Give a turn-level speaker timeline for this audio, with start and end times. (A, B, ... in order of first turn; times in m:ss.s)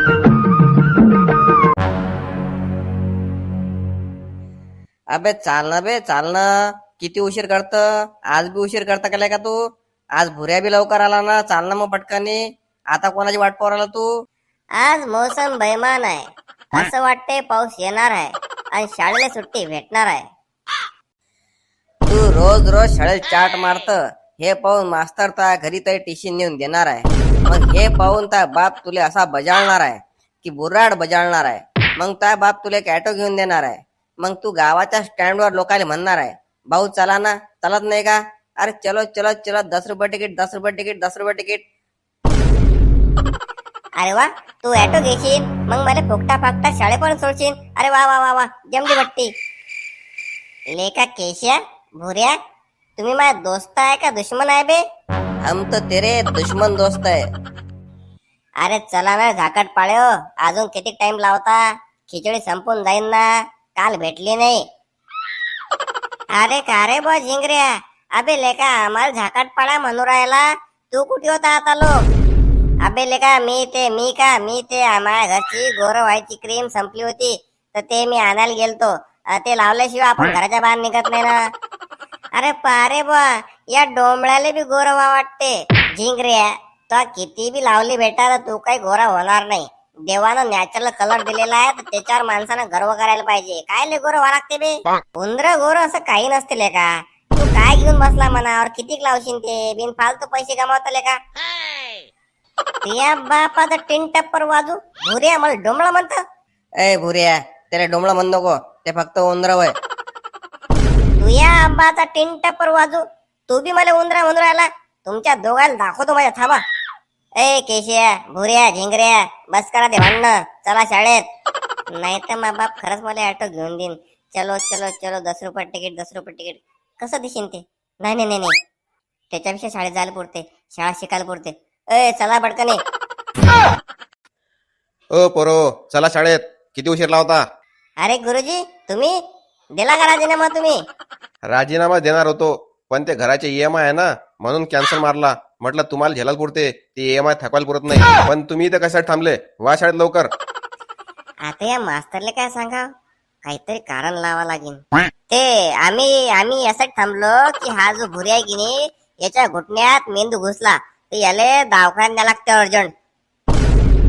0:05.1-0:09.6 A
0:10.2-0:12.4 A
0:12.9-0:14.0 A
0:14.8-0:20.2 B
0:22.1-0:41.6 A
0:44.0-0:49.3 B
0:50.7-0:52.4 B
0:53.0-0:54.8 B
0:55.4-0:57.2 A
0:58.6-1:04.6 B
1:06.4-1:11.9 B
1:12.8-1:21.4 B
1:22.4-1:41.2 B
1:42.8-1:46.2 B
1:46.8-1:49.7 A
1:51.2-1:56.6 B
1:57.4-2:01.2 B
2:02.0-2:08.5 B
2:09.3-2:12.8 B
2:15.2-2:17.4 C
2:18.0-2:19.2 B
2:19.8-2:20.8 B
2:21.5-2:30.3 C
2:31.4-2:32.9 B
2:33.4-2:42.9 B